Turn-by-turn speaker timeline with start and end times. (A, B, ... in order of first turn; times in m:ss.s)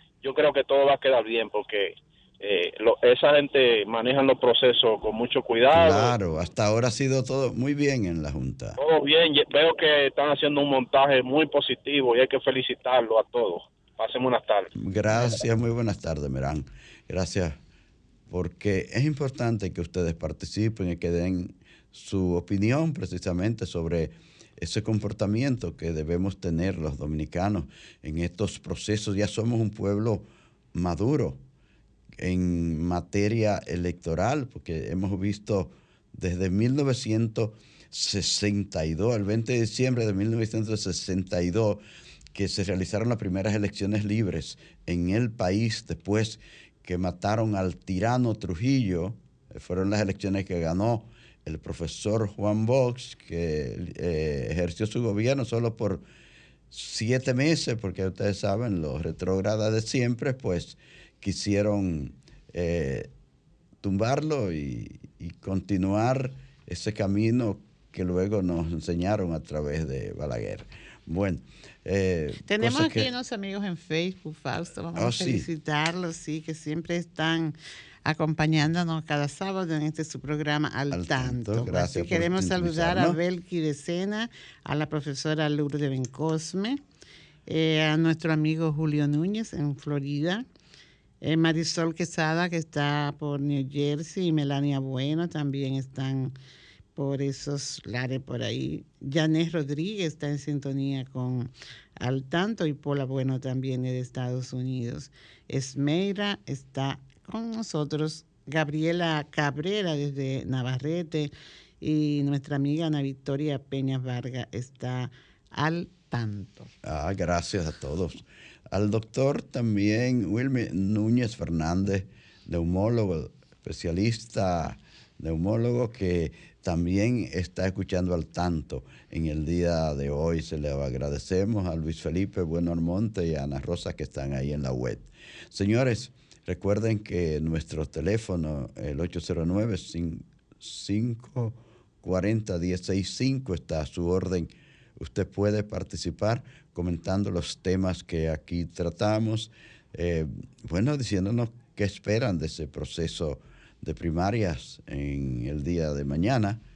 0:00.2-0:06.1 A
0:05.7-0:08.8 B
0:08.8-0:14.7 A
0:14.8-0:17.6 B
0:18.3-0:31.4 B
0:32.2-0:41.8 B
0:42.3-0:56.0 B
0:56.7-1:03.1 B
1:03.8-1:13.1 B
1:12.5-1:26.8 C
1:14.9-1:15.4 B
1:20.9-1:23.2 B
1:27.5-1:30.4 C
1:31.2-1:36.3 C
1:36.9-1:56.7 C
1:56.8-2:36.6 B